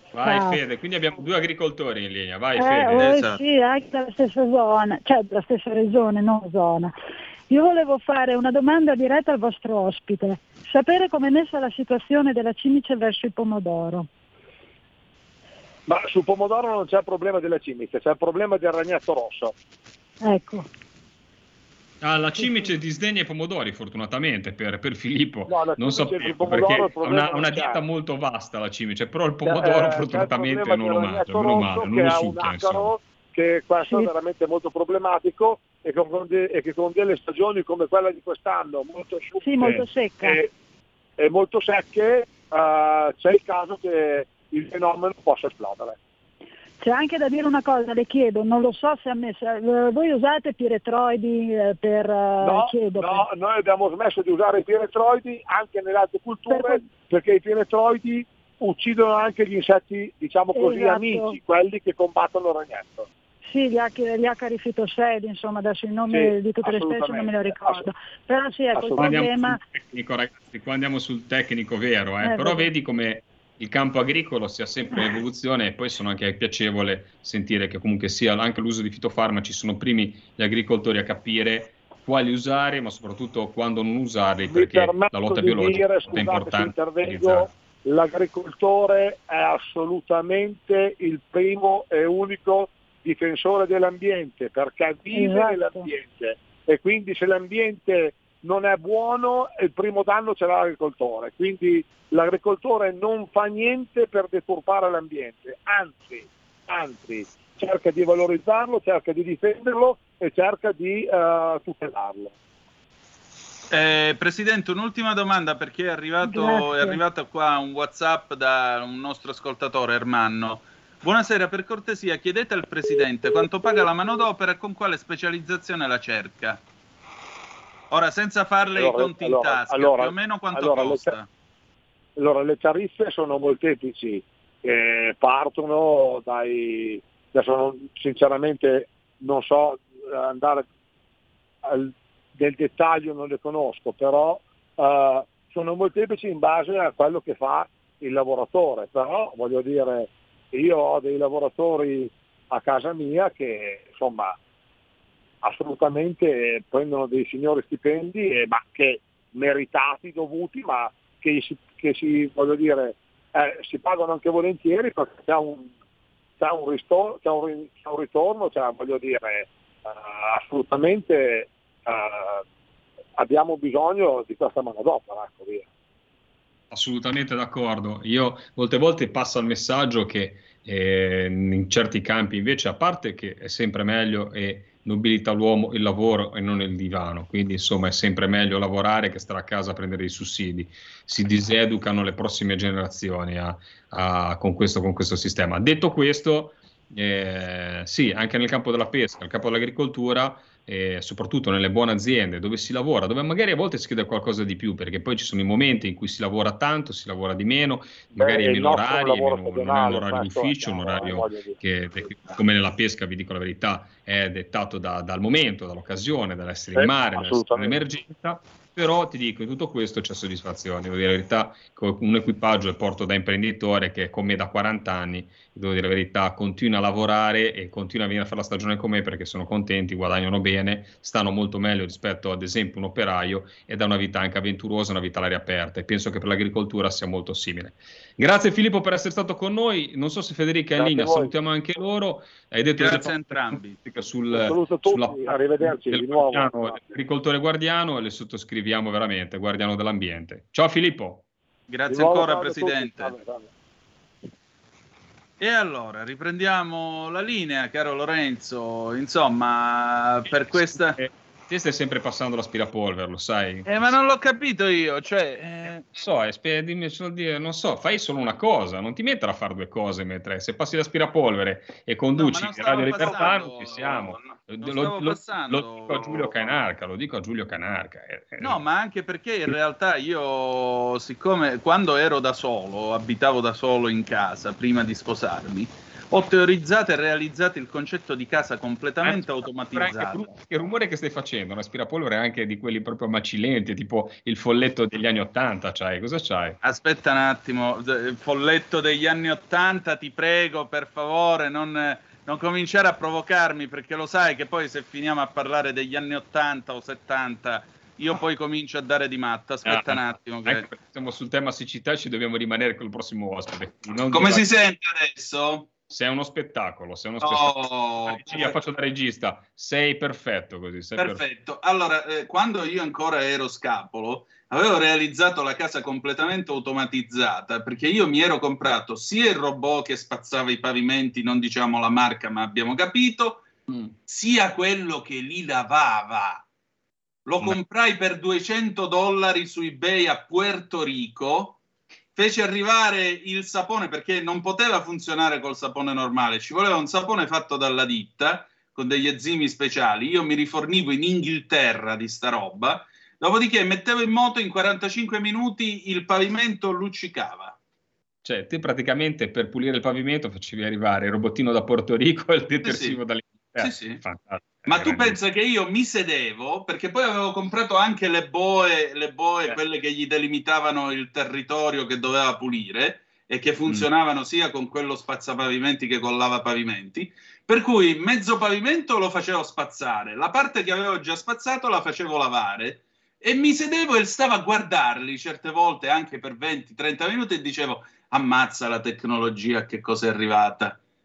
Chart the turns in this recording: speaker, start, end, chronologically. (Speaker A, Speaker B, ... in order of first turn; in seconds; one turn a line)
Speaker A: 0.1-3.1
Speaker B: 0.2-0.6
Speaker B: 2.6-6.9
Speaker C: 3.0-3.4
Speaker B: 7.5-14.1
Speaker D: 15.9-19.6
Speaker B: 20.2-20.7
Speaker A: 22.0-32.9
Speaker D: 25.5-27.8
Speaker D: 29.4-40.5
Speaker B: 39.4-40.4
Speaker D: 41.2-46.0
Speaker B: 46.8-53.2
Speaker D: 52.4-63.1
Speaker B: 56.5-56.9
Speaker B: 60.5-61.4
Speaker B: 63.5-69.6
Speaker D: 66.1-67.9
Speaker D: 68.7-69.2
Speaker A: 69.0-87.5
Speaker B: 72.2-72.7
Speaker D: 84.5-112.3
Speaker B: 95.1-95.9
Speaker C: 113.7-126.6
Speaker B: 116.2-117.0
Speaker C: 127.9-131.3
Speaker D: 128.7-131.2
Speaker D: 132.2-140.7
Speaker D: 141.7-154.4
Speaker D: 155.4-165.7
Speaker D: 166.4-172.4
Speaker D: 173.2-175.7
Speaker A: 176.7-251.3
Speaker D: 208.1-211.6
Speaker D: 216.8-217.9
Speaker D: 240.8-241.3
Speaker C: 242.8-243.8
Speaker D: 244.3-246.8
Speaker C: 251.7-253.2
Speaker D: 251.9-253.5
Speaker C: 255.4-261.0
Speaker A: 260.5-263.9
Speaker C: 263.7-266.0
Speaker A: 266.0-278.6
Speaker C: 272.2-276.5
Speaker C: 278.4-290.3
Speaker A: 289.0-296.6
Speaker C: 296.6-310.7
Speaker A: 309.6-314.5
Speaker C: 314.1-315.7
Speaker A: 315.9-321.2
Speaker C: 317.2-318.6
Speaker C: 321.0-333.5
Speaker C: 334.1-336.4
Speaker C: 337.3-341.6
Speaker C: 342.2-357.6
Speaker A: 358.2-365.2
Speaker C: 362.6-363.0
Speaker C: 363.6-364.0
Speaker C: 364.6-390.8